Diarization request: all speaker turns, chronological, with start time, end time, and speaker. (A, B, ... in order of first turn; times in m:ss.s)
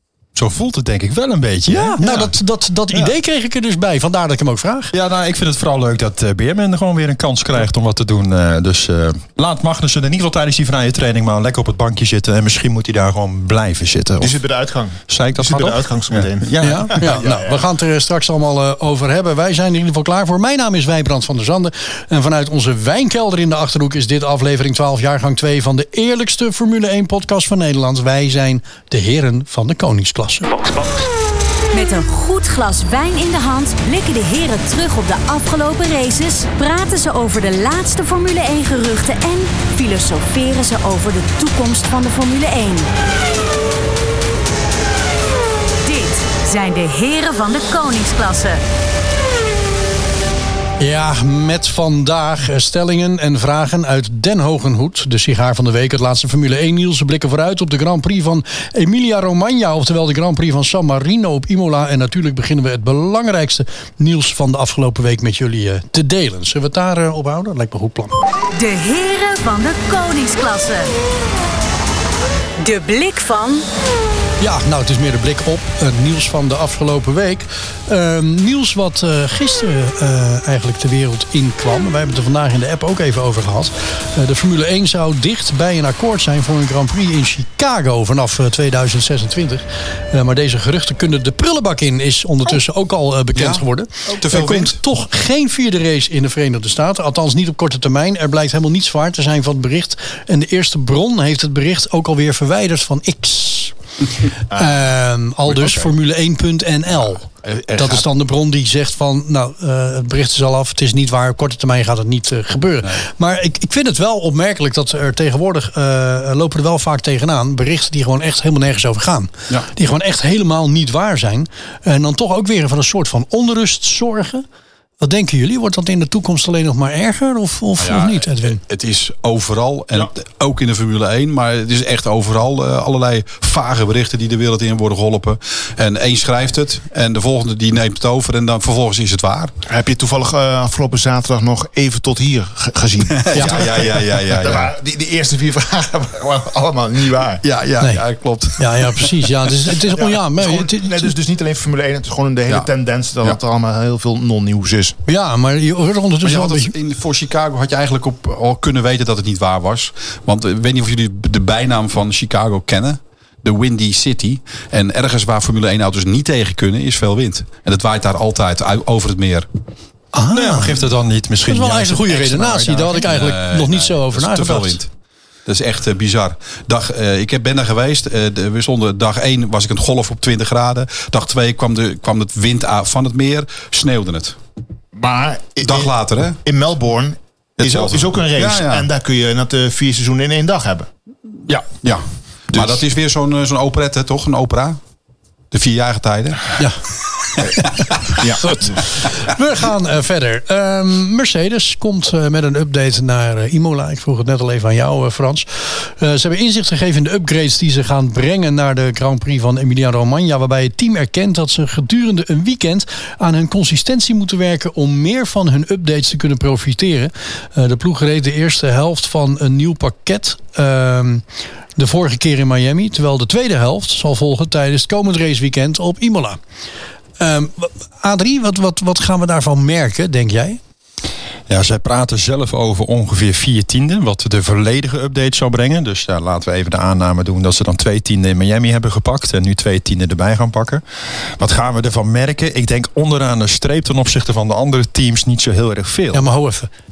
0:00.3-0:02.3 A
0:01.7-0:04.9 B
0:04.9-0:14.4 A
0:14.2-0:17.5 C
0:15.1-0:17.2 A
0:16.6-0:30.7 B
0:31.7-0:42.9 D
0:45.8-0:48.6 D
0:50.8-1:08.2 B
1:08.5-1:10.9 D
1:12.6-1:13.7 D
1:14.4-1:43.8 B
1:33.3-1:34.8 E
1:44.5-2:04.4 B
2:05.0-2:08.6 B
2:07.8-2:19.5 E
2:19.7-2:27.4 C
2:23.2-2:24.7 E
2:23.3-2:23.6 B
2:27.4-2:29.2 E
2:28.6-2:31.1 B
2:29.9-2:35.0 C
2:35.0-2:36.7 B
2:36.2-2:49.5 E
2:50.1-2:50.8 B
2:50.3-2:53.1 A
2:51.4-2:54.8 B
2:53.1-2:54.9 E
2:55.5-3:04.4 E
3:04.9-3:10.9 C
3:05.6-3:06.4 E
3:07.6-3:08.9 E
3:11.5-3:14.8 E
3:15.5-3:16.5 E
3:18.2-3:18.8 C
3:18.3-3:41.2 B
3:41.8-3:46.4 B
3:47.2-3:50.6 B
3:51.5-4:00.8 A
4:01.4-4:06.2 A
4:06.1-4:06.7 B